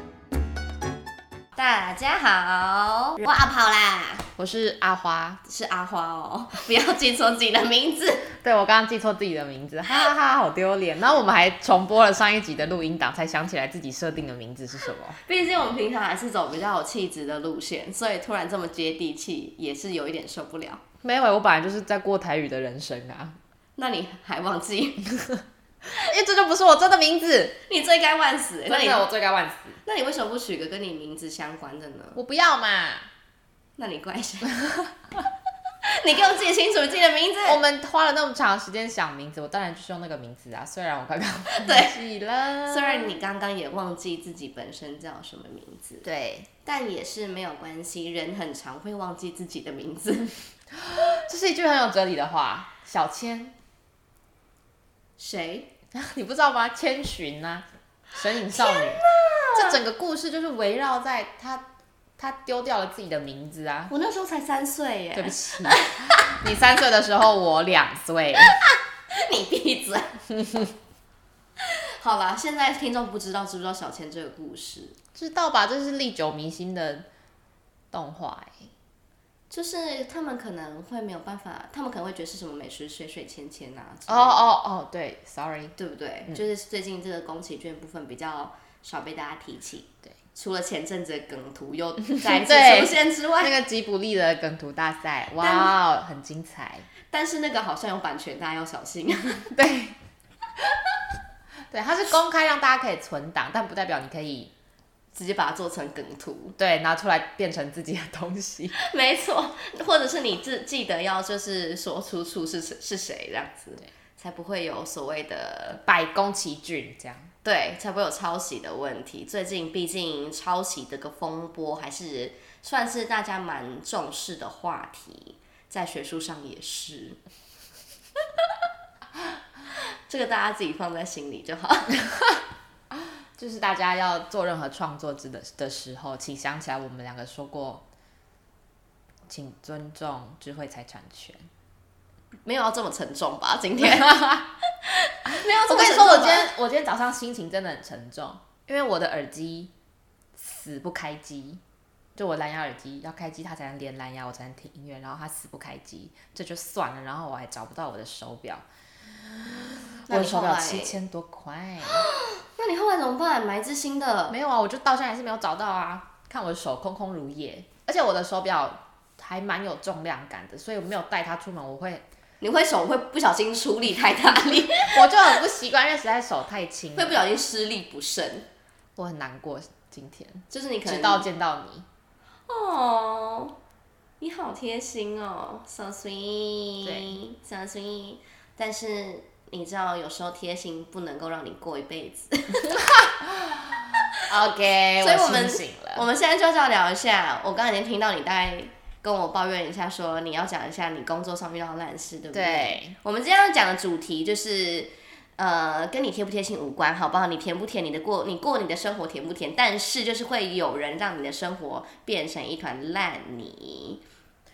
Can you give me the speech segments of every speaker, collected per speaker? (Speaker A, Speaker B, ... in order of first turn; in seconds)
Speaker A: 1.6-4.3, 5.5-8.3, 15.1-20.8, 23.8-25.0, 27.7-29.1, 29.9-32.2, 33.8-34.6, 35.8-37.6, 41.5-42.0, 42.6-46.0, 46.6-50.3, 55.2-55.7, 58.5-59.8, 63.9-66.3, 69.1-70.2, 72.0-75.0, 79.5-84.5, 85.8-93.5, 95.4-95.7, 97.1-99.5, 105.2-106.6, 108.8-115.8, 117.4-127.2, 130.1-131.9, 142.5-144.2, 144.8-146.5, 160.1-161.0, 161.8-164.4, 172.4-175.4, 177.0-178.5, 180.5-181.3, 182.5-183.5, 184.2-192.9, 195.0-214.0
Speaker B: 4.4-5.4, 8.3-15.2, 21.0-23.4, 25.1-27.6, 28.7-29.8, 32.1-33.1, 34.6-34.9, 37.5-43.2, 46.0-46.5, 50.7-53.6, 55.9-61.6, 62.2-63.9, 65.2-68.6, 70.3-70.7, 75.2-77.1, 77.9-78.7, 84.1-85.8, 92.2-96.9, 99.5-100.0, 101.7-104.5, 106.6-108.8, 115.8-117.3, 132.9-137.8, 139.3-141.5, 143.8-144.5, 145.3-149.7, 150.4-151.6, 152.2-158.7, 159.2-162.1, 164.3-172.1, 174.2-177.2, 179.0-181.9, 186.8-187.2, 193.0-193.6, 194.3-196.1, 202.3-203.0